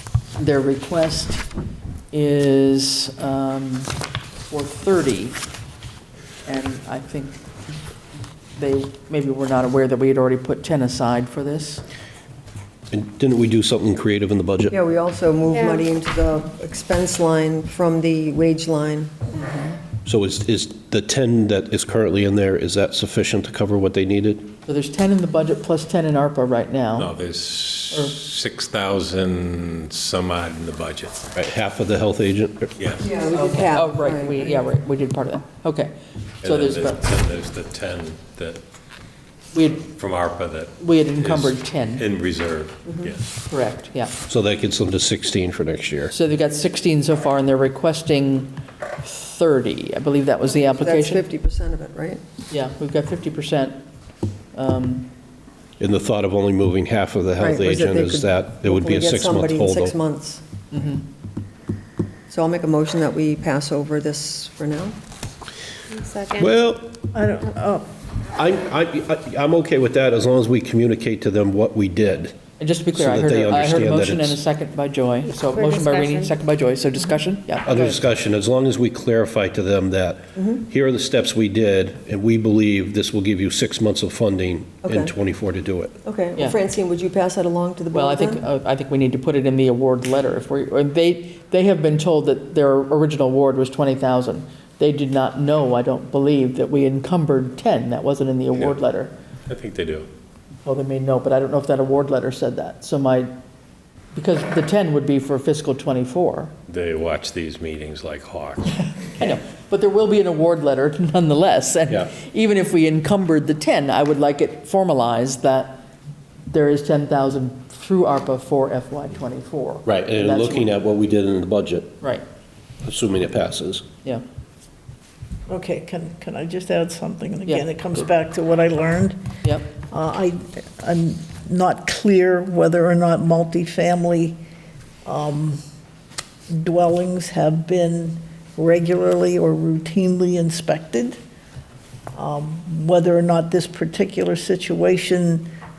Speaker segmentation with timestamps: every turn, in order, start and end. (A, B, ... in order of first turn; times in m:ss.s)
0:00.4-0:01.4 A
0:02.1-0:03.9 A
0:04.4-0:05.4 A
0:06.4-0:07.4 A
0:08.6-0:11.8 A
0:12.9-0:14.8 B
0:14.7-0:19.1 C
0:15.5-0:15.8 D
0:19.4-0:19.7 A
0:20.0-0:24.5 B
0:24.7-0:27.1 A
0:26.9-0:31.4 E
0:27.9-0:28.2 A
0:31.4-0:32.7 B
0:32.8-0:33.1 E
0:33.0-0:34.6 C
0:33.3-0:37.0 A
0:36.4-0:38.6 E
0:39.5-0:39.9 A
0:39.9-0:43.3 E
0:40.8-0:42.0 A
0:43.5-0:44.2 A
0:44.2-0:46.1 B
0:46.1-0:51.2 A
0:50.7-0:52.2 C
0:52.5-0:53.8 A
0:54.5-0:55.1 A
0:55.8-1:00.0 B
0:57.4-1:00.4 C
1:00.7-1:01.0 A
1:02.3-1:04.9 C
1:05.9-1:06.5 D
1:06.4-1:07.0 B
1:07.1-1:07.8 F
1:08.3-1:12.4 B
1:12.6-1:18.0 A
1:12.9-1:14.4 B
1:15.3-1:16.3 D
1:17.6-1:26.0 B
1:20.4-1:20.6 C
1:24.8-1:25.1 C
1:26.0-1:28.4 C
1:27.9-1:39.1 A
1:39.5-1:40.1 E
1:40.6-1:43.3 A
1:44.1-1:46.5 A
1:46.7-1:48.8 E
1:49.2-1:55.8 A
1:56.5-2:00.7 A
1:59.8-2:02.0 B
2:02.8-2:03.8 B
2:05.5-2:09.2 F
2:09.9-2:14.4 F
2:15.0-2:15.6 F
2:16.5-2:21.2 F
2:22.1-2:25.5 F